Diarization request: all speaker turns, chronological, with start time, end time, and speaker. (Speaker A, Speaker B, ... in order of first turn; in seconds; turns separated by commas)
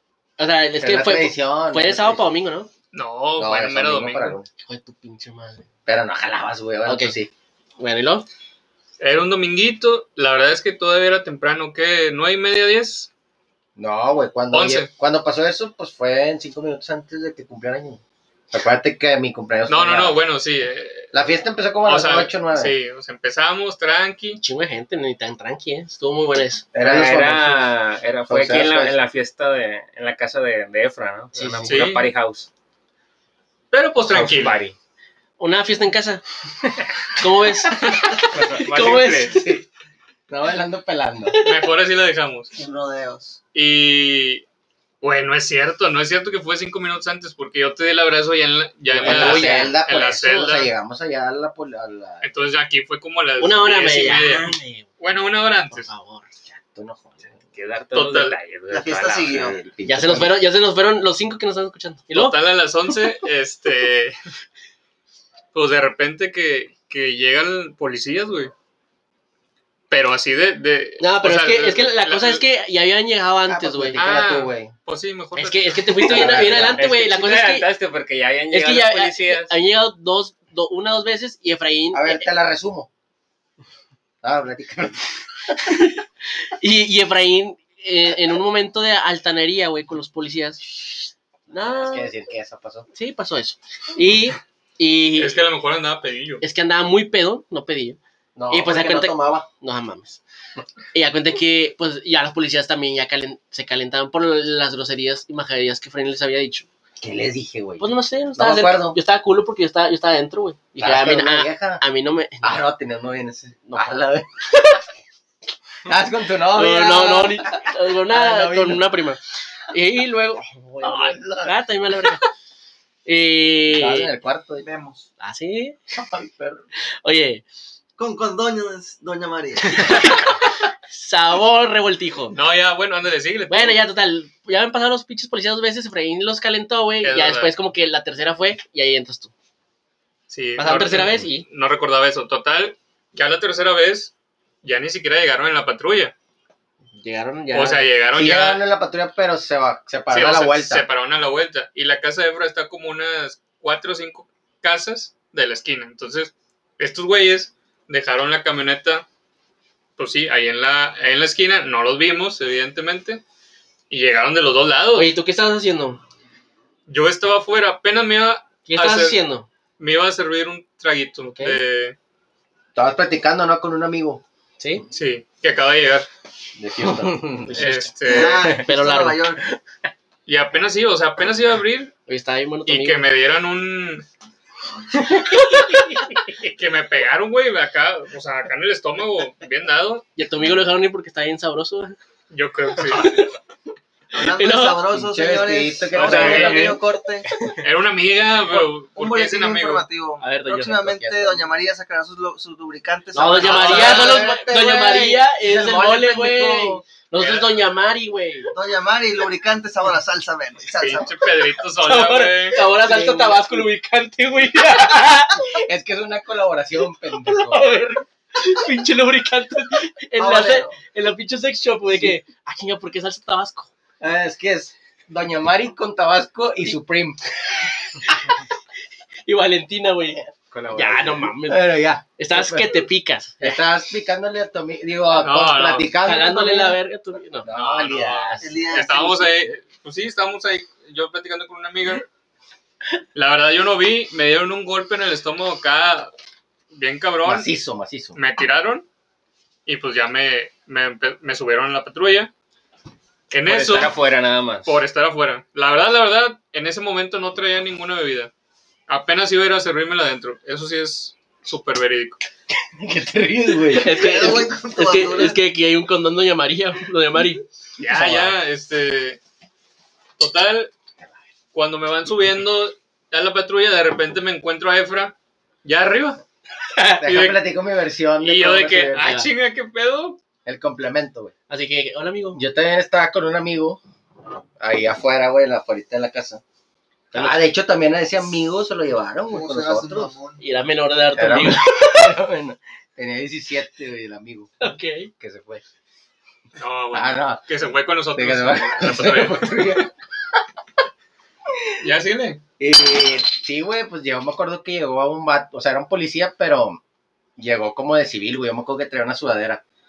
Speaker A: 0.4-2.7, Speaker B: 0.8-2.3, Speaker C: 2.9-4.4, Speaker B: 3.4-4.5, Speaker A: 4.6-5.7, Speaker B: 5.9-7.3, Speaker A: 6.9-7.2, Speaker A: 7.8-8.3, Speaker C: 9.0-13.1, Speaker B: 13.8-20.2, Speaker C: 14.5-14.9, Speaker C: 19.7-21.1, Speaker B: 21.1-22.7, Speaker C: 21.8-24.4, Speaker A: 24.4-26.8, Speaker B: 26.7-27.7, Speaker D: 26.8-32.5, Speaker B: 28.3-29.0, Speaker A: 31.4-31.8, Speaker C: 31.7-32.1, Speaker C: 33.7-34.6, Speaker D: 34.1-34.8, Speaker A: 35.4-36.2, Speaker A: 37.2-39.4, Speaker D: 38.2-39.5, Speaker B: 39.3-39.7, Speaker B: 40.3-41.4, Speaker C: 41.4-42.5, Speaker E: 42.5-43.4, Speaker C: 43.5-44.4, Speaker C: 45.0-50.7, Speaker A: 49.0-49.7, Speaker B: 49.0-52.2, Speaker C: 52.2-55.9, Speaker A: 53.4-54.9, Speaker A: 55.7-56.3, Speaker B: 56.5-57.4, Speaker D: 57.5-59.5, Speaker C: 57.9-58.4, Speaker E: 58.7-59.6, Speaker B: 59.3-60.4, Speaker A: 59.9-62.4, Speaker C: 62.1-64.2, Speaker C: 65.5-68.5, Speaker C: 69.9-72.4, Speaker A: 71.0-74.0, Speaker B: 73.5-74.7, Speaker C: 74.0-76.3, Speaker A: 75.4-77.7, Speaker B: 76.1-76.8, Speaker D: 76.3-79.6, Speaker A: 78.5-82.3, Speaker B: 81.9-82.9, Speaker B: 84.2-85.6, Speaker A: 86.4-90.7, Speaker A: 91.5-92.1, Speaker B: 91.8-92.9, Speaker A: 92.9-95.3, Speaker C: 95.2-96.4, Speaker A: 96.4-98.0, Speaker B: 98.4-99.5, Speaker A: 98.5-100.2, Speaker A: 100.9-106.7, Speaker B: 107.0-109.0, Speaker A: 107.8-112.5, Speaker B: 110.8-111.8, Speaker B: 112.4-114.8, Speaker A: 113.7-114.0, Speaker B: 115.9-118.9, Speaker A: 116.5-122.2, Speaker B: 120.8-121.6, Speaker A: 123.1-124.1, Speaker B: 123.8-124.7, Speaker E: 124.6-125.0, Speaker A: 125.2-125.8, Speaker B: 125.9-126.6, Speaker A: 127.0-127.4, Speaker E: 128.0-130.3, Speaker A: 129.8-130.4, Speaker A: 130.9-132.4, Speaker C: 132.3-133.8, Speaker A: 133.5-139.3, Speaker C: 137.0-137.5, Speaker C: 140.3-144.1, Speaker A: 140.6-141.4, Speaker C: 144.6-146.1, Speaker A: 147.0-147.8, Speaker C: 147.5-148.6, Speaker B: 148.1-150.9, Speaker C: 150.1-159.1, Speaker C: 160.0-163.2, Speaker C: 163.9-165.1, Speaker A: 164.9-166.0, Speaker C: 166.9-169.2, Speaker A: 168.7-169.5, Speaker C: 169.8-172.0, Speaker A: 171.3-171.6, Speaker B: 172.8-174.2, Speaker A: 174.6-174.9, Speaker C: 174.9-176.1, Speaker B: 176.6-177.6, Speaker A: 177.5-177.9, Speaker C: 177.5-178.4, Speaker E: 178.1-179.4, Speaker A: 178.5-179.2, Speaker C: 180.3-181.9, Speaker A: 182.1-183.0, Speaker C: 182.7-184.1, Speaker A: 185.5-185.9, Speaker C: 186.4-190.1, Speaker A: 190.2-191.9, Speaker C: 192.3-193.3, Speaker A: 192.9-193.2, Speaker E: 194.1-197.3, Speaker A: 194.2-194.8, Speaker B: 194.9-196.8, Speaker C: 195.9-196.8, Speaker D: 196.1-196.4, Speaker C: 197.6-199.9, Speaker E: 198.6-204.4, Speaker A: 200.2-200.9, Speaker B: 200.9-201.4, Speaker A: 203.1-208.5, Speaker C: 203.4-204.2, Speaker B: 203.5-206.8, Speaker C: 207.2-207.6, Speaker E: 208.5-211.1, Speaker C: 210.7-212.6, Speaker A: 211.8-215.5, Speaker B: 212.8-213.6, Speaker B: 215.3-217.7, Speaker A: 217.2-223.7, Speaker E: 220.2-220.7, Speaker B: 224.0-227.2, Speaker A: 229.3-230.2, Speaker D: 230.5-231.3, Speaker A: 230.7-233.6, Speaker B: 231.4-232.9, Speaker B: 233.4-236.8, Speaker C: 235.1-235.9, Speaker A: 236.0-237.5, Speaker B: 237.4-238.5, Speaker C: 237.5-242.1, Speaker E: 238.4-239.4, Speaker C: 243.2-246.1, Speaker C: 246.7-247.5, Speaker B: 247.2-248.2, Speaker C: 248.2-248.9, Speaker C: 249.7-252.3, Speaker C: 253.3-253.9, Speaker D: 253.5-254.8, Speaker C: 254.7-258.3, Speaker C: 258.9-262.2, Speaker B: 262.8-264.3, Speaker A: 263.7-267.4, Speaker E: 263.9-265.4, Speaker C: 267.8-269.2, Speaker B: 267.9-268.3, Speaker C: 270.2-270.7, Speaker C: 271.5-276.2, Speaker A: 276.8-277.0, Speaker B: 277.0-279.2, Speaker C: 277.0-277.4, Speaker C: 278.2-280.2, Speaker A: 279.0-279.3, Speaker B: 280.4-281.3, Speaker A: 281.5-282.4, Speaker B: 282.4-283.8, Speaker B: 284.6-286.4, Speaker A: 287.1-287.4, Speaker B: 287.1-290.1, Speaker E: 289.3-290.4, Speaker A: 290.4-292.1, Speaker B: 291.1-295.6, Speaker A: 294.6-295.1, Speaker C: 296.6-299.8, Speaker B: 296.9-297.4, Speaker B: 298.1-299.9, Speaker C: 301.8-302.4, Speaker B: 302.6-306.8, Speaker B: 307.4-309.6